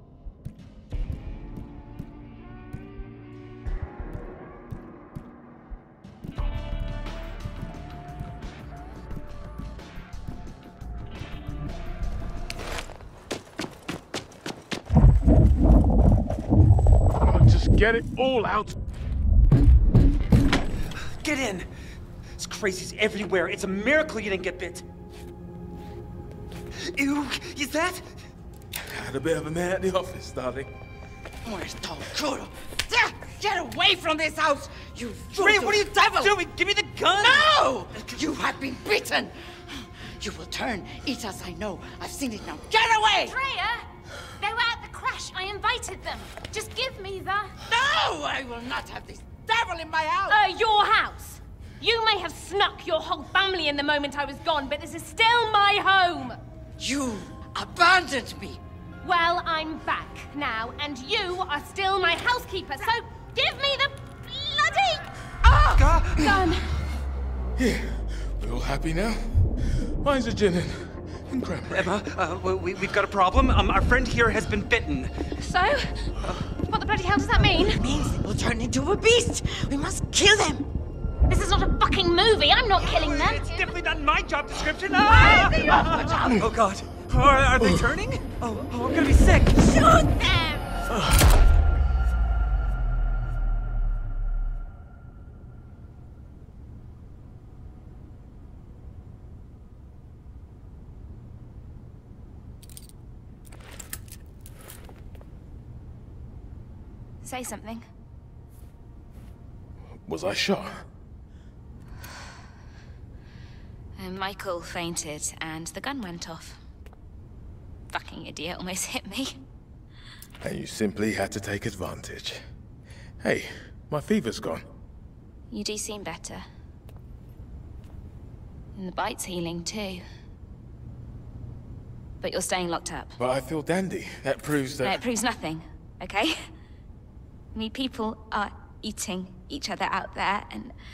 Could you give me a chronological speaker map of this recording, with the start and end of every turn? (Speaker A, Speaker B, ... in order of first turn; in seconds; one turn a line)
Speaker A: 17.2-18.8
Speaker B: 21.1-21.7
Speaker B: 22.4-24.9
Speaker B: 26.8-28.2
Speaker A: 28.8-30.7
Speaker C: 31.4-36.4
Speaker B: 35.3-38.2
Speaker C: 37.1-43.4
Speaker D: 43.2-43.9
Speaker D: 44.4-47.5
Speaker C: 47.6-50.4
Speaker D: 50.3-56.4
Speaker C: 56.8-58.6
Speaker D: 59.0-66.7
Speaker B: 65.7-66.3
Speaker A: 67.6-69.3
Speaker A: 70.0-71.9
Speaker B: 71.7-75.1
Speaker D: 75.4-77.8
Speaker C: 77.8-80.6
Speaker D: 81.3-83.7
Speaker B: 82.8-89.7
Speaker D: 85.1-85.8
Speaker C: 85.6-86.2
Speaker D: 89.9-90.6
Speaker A: 90.9-91.3
Speaker D: 107.2-107.8
Speaker A: 110.0-110.8
Speaker D: 114.0-116.6
Speaker D: 117.9-119.4
Speaker A: 120.4-122.4
Speaker A: 123.2-124.6
Speaker D: 125.5-126.5
Speaker D: 128.8-130.0
Speaker D: 132.2-133.1
Speaker A: 133.2-135.0
Speaker D: 134.8-136.4
Speaker D: 137.5-140.7